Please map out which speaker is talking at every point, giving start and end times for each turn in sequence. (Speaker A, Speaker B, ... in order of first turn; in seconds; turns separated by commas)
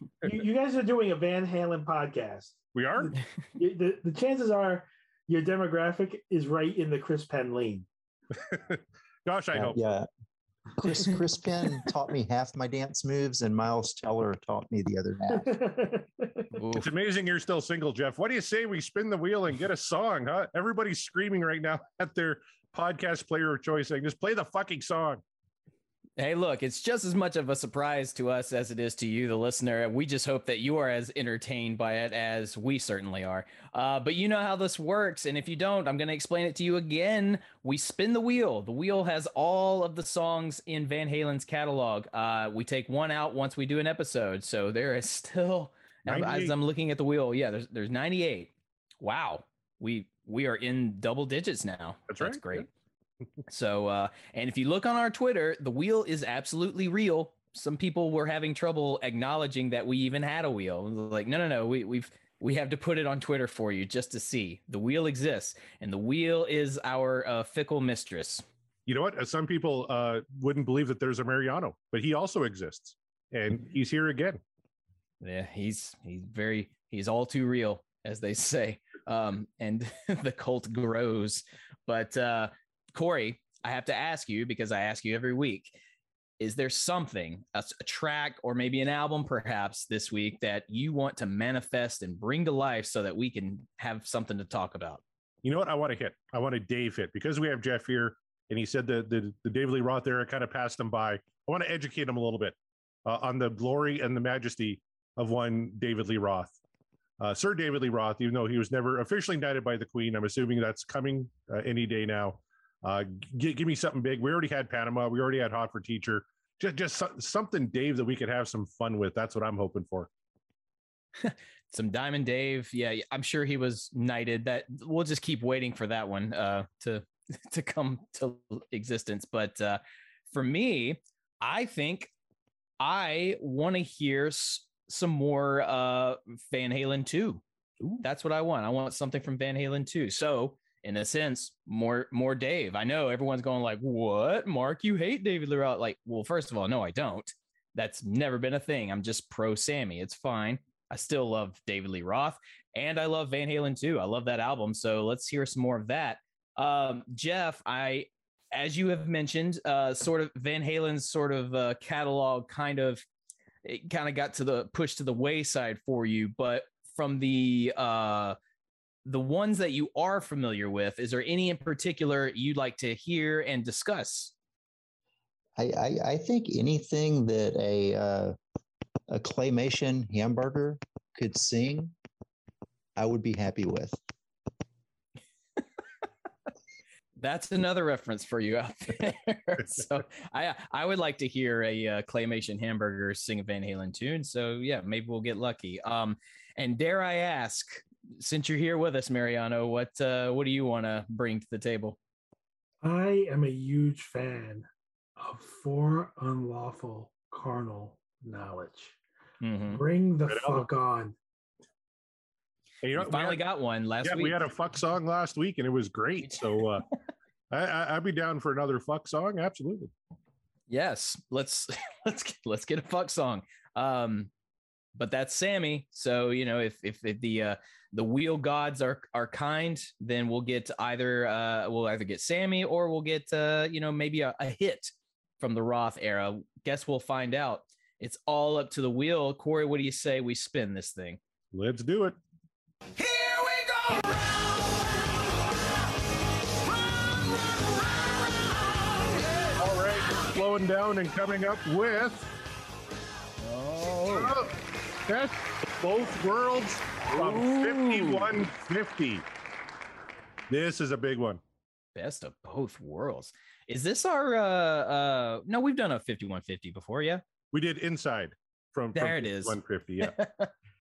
Speaker A: 0.2-7.9, Speaker B: 2.7-3.1, Speaker B: 8.3-9.8, Speaker C: 9.5-10.1, Speaker C: 10.8-15.5, Speaker A: 15.3-16.5, Speaker D: 16.5-16.9, Speaker B: 16.8-25.2, Speaker D: 26.2-52.7, Speaker B: 46.1-46.5, Speaker B: 52.1-52.6, Speaker D: 53.5-68.5, Speaker B: 68.9-74.4, Speaker D: 75.2-85.8, Speaker D: 86.4-95.0, Speaker B: 95.4-106.5, Speaker B: 107.2-120.1, Speaker D: 121.2-132.1, Speaker D: 132.8-137.4, Speaker D: 138.0-163.0, Speaker D: 163.6-168.4, Speaker D: 169.1-174.3, Speaker C: 175.6-178.3, Speaker C: 179.1-181.9, Speaker C: 183.0-184.0, Speaker D: 187.2-202.0, Speaker A: 202.8-209.0, Speaker D: 209.4-209.8, Speaker A: 209.7-211.2, Speaker B: 210.3-210.6, Speaker B: 212.8-213.4, Speaker D: 213.0-214.4, Speaker B: 214.0-216.9, Speaker B: 217.5-219.9, Speaker D: 220.7-224.3, Speaker D: 225.0-241.2, Speaker B: 241.5-242.2, Speaker E: 243.0-245.1, Speaker E: 246.7-249.7, Speaker B: 249.6-252.3, Speaker D: 253.4-254.3, Speaker B: 254.1-254.5, Speaker B: 255.1-259.2, Speaker D: 257.1-258.4, Speaker B: 260.5-261.4, Speaker D: 261.9-267.2, Speaker B: 267.5-270.2, Speaker D: 268.9-270.5